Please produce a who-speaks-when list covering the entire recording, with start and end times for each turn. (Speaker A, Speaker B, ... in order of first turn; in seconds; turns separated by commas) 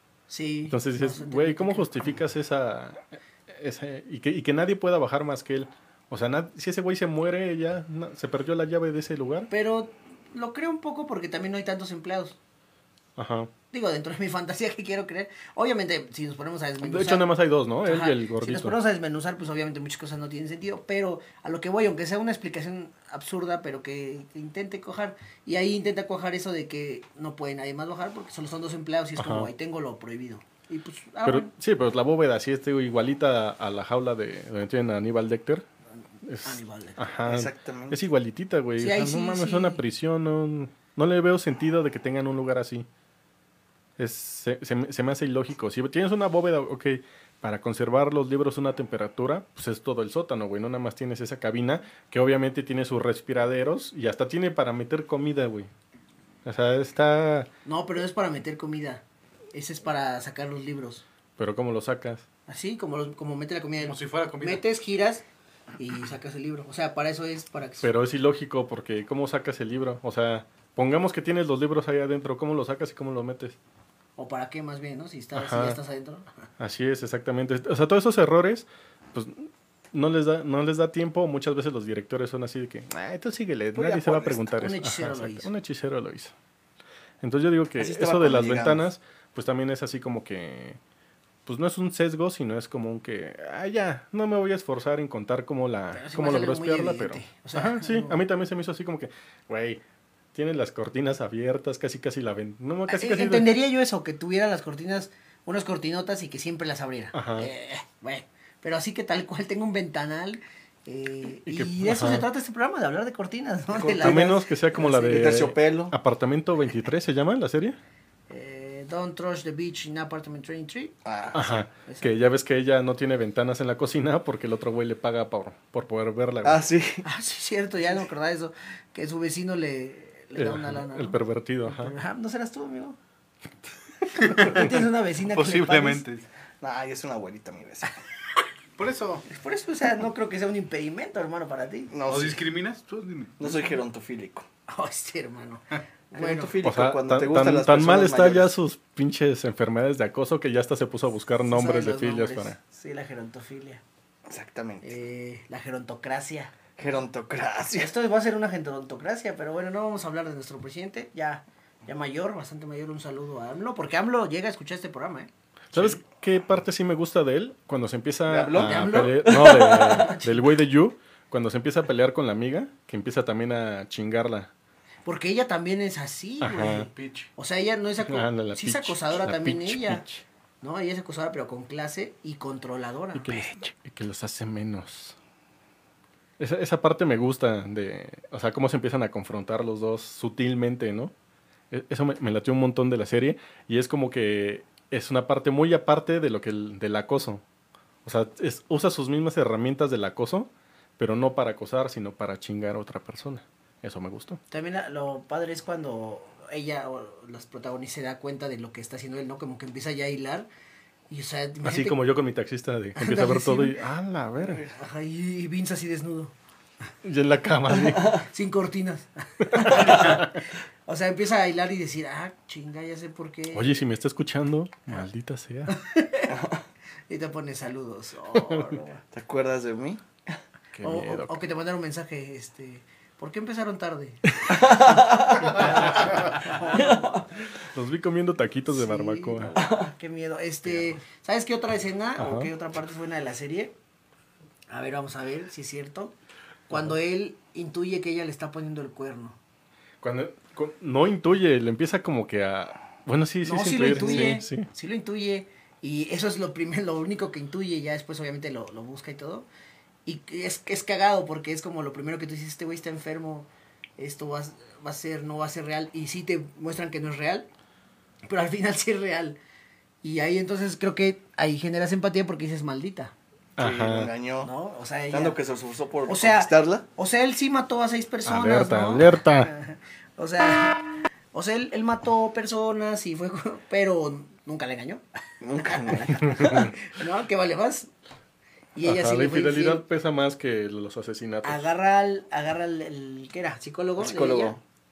Speaker A: 0.3-2.1, Speaker B: 0.7-9.5, Speaker A: 9.5-12.4, Speaker B: 13.2-13.5, Speaker A: 13.7-17.3, Speaker B: 16.8-18.7, Speaker A: 17.8-31.5, Speaker B: 29.2-29.5, Speaker B: 31.2-35.6, Speaker B: 36.2-42.9, Speaker A: 36.4-37.0, Speaker C: 37.2-38.0, Speaker A: 38.8-39.8, Speaker B: 44.0-55.7, Speaker B: 56.4-57.5, Speaker A: 57.6-61.0, Speaker B: 61.4-62.2, Speaker A: 62.5-65.2, Speaker D: 63.8-64.6, Speaker A: 65.8-67.9, Speaker B: 67.8-73.5, Speaker A: 74.2-76.5, Speaker B: 75.3-75.8, Speaker B: 76.6-86.3, Speaker C: 83.7-84.5, Speaker A: 84.5-85.5, Speaker B: 87.2-90.8, Speaker C: 87.8-88.8, Speaker B: 91.5-99.8, Speaker A: 95.9-98.2, Speaker B: 100.3-103.5, Speaker A: 102.9-115.3, Speaker B: 107.1-107.5, Speaker B: 111.5-112.3, Speaker C: 113.7-114.4, Speaker B: 114.0-117.8, Speaker C: 114.9-115.9, Speaker A: 118.3-122.1, Speaker C: 121.0-121.6, Speaker B: 121.3-126.6, Speaker C: 126.4-127.0, Speaker A: 127.0-133.0, Speaker B: 130.3-131.9, Speaker A: 134.1-136.0, Speaker D: 135.2-136.2, Speaker C: 136.6-137.9, Speaker D: 138.8-139.2, Speaker A: 139.3-141.9, Speaker C: 141.9-142.4, Speaker D: 142.1-143.4, Speaker C: 143.4-144.4, Speaker A: 144.7-146.5, Speaker C: 146.1-148.5, Speaker B: 146.6-152.6, Speaker A: 151.5-153.8, Speaker C: 154.3-154.9, Speaker A: 154.8-156.6, Speaker C: 156.8-157.9, Speaker A: 157.8-165.3, Speaker B: 165.7-174.5, Speaker C: 168.3-170.1, Speaker A: 168.5-170.5, Speaker A: 175.0-180.0, Speaker B: 176.4-176.9, Speaker D: 176.9-177.3, Speaker B: 178.0-180.2, Speaker A: 180.6-183.6, Speaker B: 183.1-185.2, Speaker B: 186.4-191.1, Speaker B: 191.7-197.4, Speaker B: 198.0-204.4, Speaker A: 204.5-210.5, Speaker A: 211.1-212.0, Speaker B: 211.6-214.6, Speaker A: 212.9-213.8, Speaker A: 214.7-216.3, Speaker B: 217.0-218.2, Speaker A: 217.9-223.8, Speaker B: 219.4-220.4, Speaker B: 223.5-225.7, Speaker A: 225.7-226.3, Speaker C: 226.3-226.6, Speaker A: 227.1-229.0, Speaker B: 228.3-228.8, Speaker C: 229.1-230.0, Speaker B: 230.7-231.4, Speaker A: 230.8-237.2, Speaker C: 234.5-235.6, Speaker C: 236.7-237.2, Speaker B: 237.7-239.6, Speaker A: 238.7-243.7, Speaker C: 239.6-239.9, Speaker B: 242.2-242.5, Speaker A: 244.7-246.1, Speaker A: 246.7-249.4, Speaker B: 250.0-254.7, Speaker A: 253.4-259.5, Speaker A: 260.1-267.5, Speaker A: 268.2-269.4, Speaker A: 270.0-273.1, Speaker B: 273.6-274.1, Speaker C: 273.6-274.5, Speaker A: 274.4-275.4, Speaker C: 275.1-276.8, Speaker A: 276.1-285.0, Speaker B: 278.2-279.5, Speaker C: 285.4-286.7, Speaker A: 285.6-287.9, Speaker B: 286.4-286.7, Speaker A: 288.8-289.8, Speaker B: 288.8-291.7, Speaker A: 291.4-294.6, Speaker C: 294.0-294.6